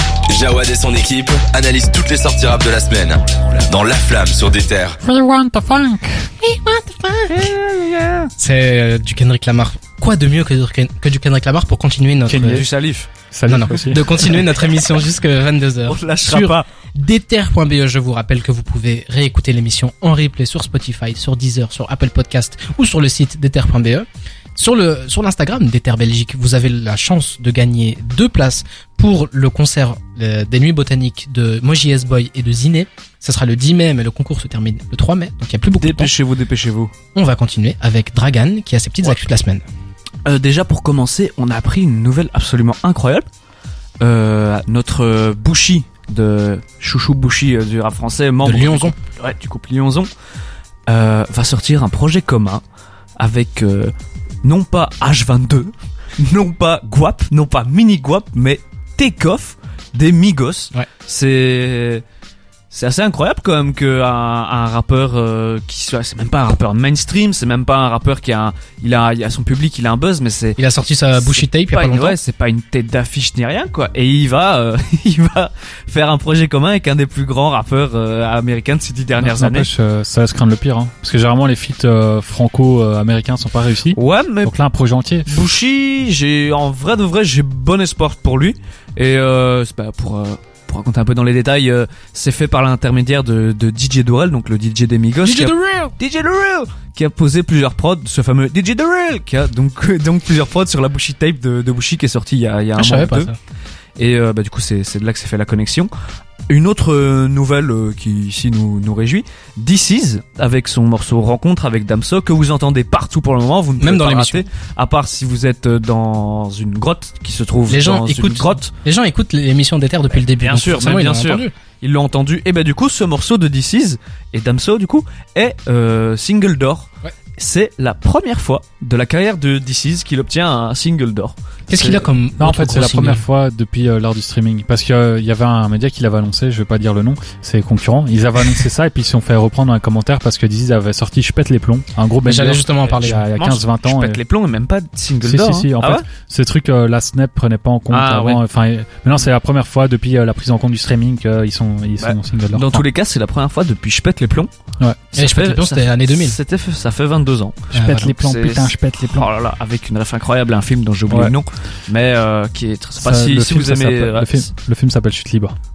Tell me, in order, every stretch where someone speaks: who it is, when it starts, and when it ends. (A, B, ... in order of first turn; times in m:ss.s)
0:00.3-0:05.0 A
0:05.0-0:06.3 B
0:06.4-0:07.5 C
0:07.3-0:08.3 D
0:08.4-0:12.6 C
0:12.3-0:12.6 B
0:12.3-0:13.1 D
0:13.3-0:14.4 B
0:13.5-0:36.1 C
0:15.9-0:16.7 D
0:35.8-0:36.9 D
0:37.1-0:39.6 C
0:40.3-0:43.3 D
0:44.0-0:50.1 D
0:48.4-0:49.0 C
0:50.9-0:52.6 D
0:53.2-1:02.0 D
1:02.7-1:10.6 D
1:10.6-1:12.2 C
1:11.2-1:19.7 D
1:19.2-1:25.4 B
1:23.9-1:24.5 D
1:25.3-1:43.3 D
1:35.2-1:35.9 C
1:42.8-1:43.4 C
1:44.0-1:45.9 D
1:46.5-1:58.7 D
1:53.8-1:54.5 C
1:57.7-2:01.5 C
2:00.4-2:12.1 D
2:11.7-2:13.2 C
2:12.4-2:24.2 B
2:22.2-2:23.3 C
2:23.4-2:26.1 D
2:25.2-2:32.8 B
2:27.9-2:28.4 D
2:32.0-2:34.5 D
2:35.1-2:44.5 D
2:35.2-2:36.4 C
2:37.7-2:38.2 C
2:37.7-2:39.3 B
2:41.1-2:41.4 B
2:43.0-2:45.5 B